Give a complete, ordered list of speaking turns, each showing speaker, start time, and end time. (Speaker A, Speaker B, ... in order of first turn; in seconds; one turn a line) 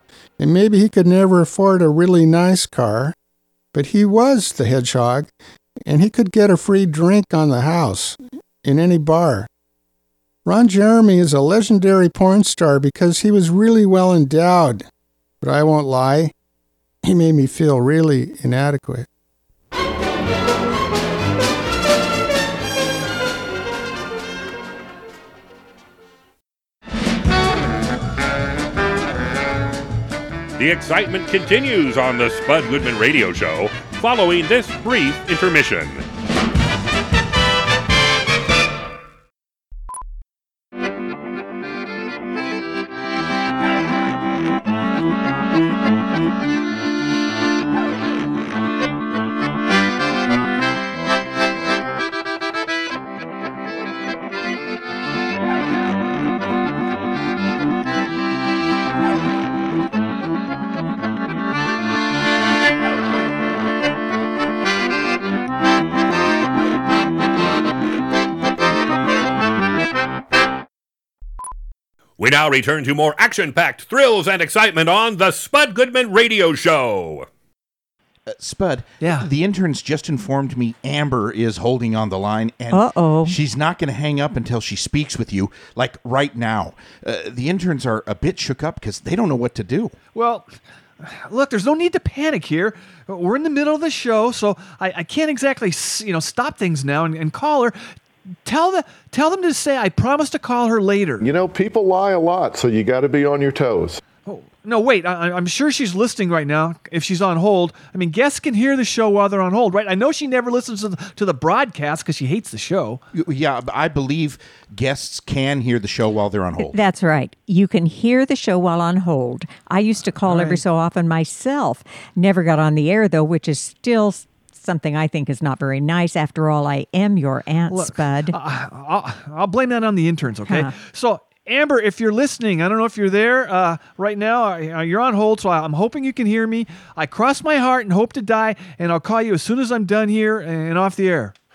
Speaker A: 0.4-3.1
Speaker A: 3.7-5.3
Speaker A: 5.8-9.5
Speaker A: 10.4-14.8
Speaker A: 15.4-16.3
Speaker A: 17.0-19.1
Speaker B: 30.6-36.0
Speaker B: 72.2-77.2
Speaker C: 78.3-89.9
Speaker D: 79.0-79.2
Speaker E: 82.7-83.4
Speaker D: 90.1-97.8
Speaker D: 98.4-101.2
Speaker F: 101.2-104.0
Speaker D: 104.2-113.0
Speaker C: 113.1-116.8
Speaker E: 116.6-128.4
Speaker D: 120.2-120.6
Speaker D: 127.7-141.3
Speaker E: 130.5-130.7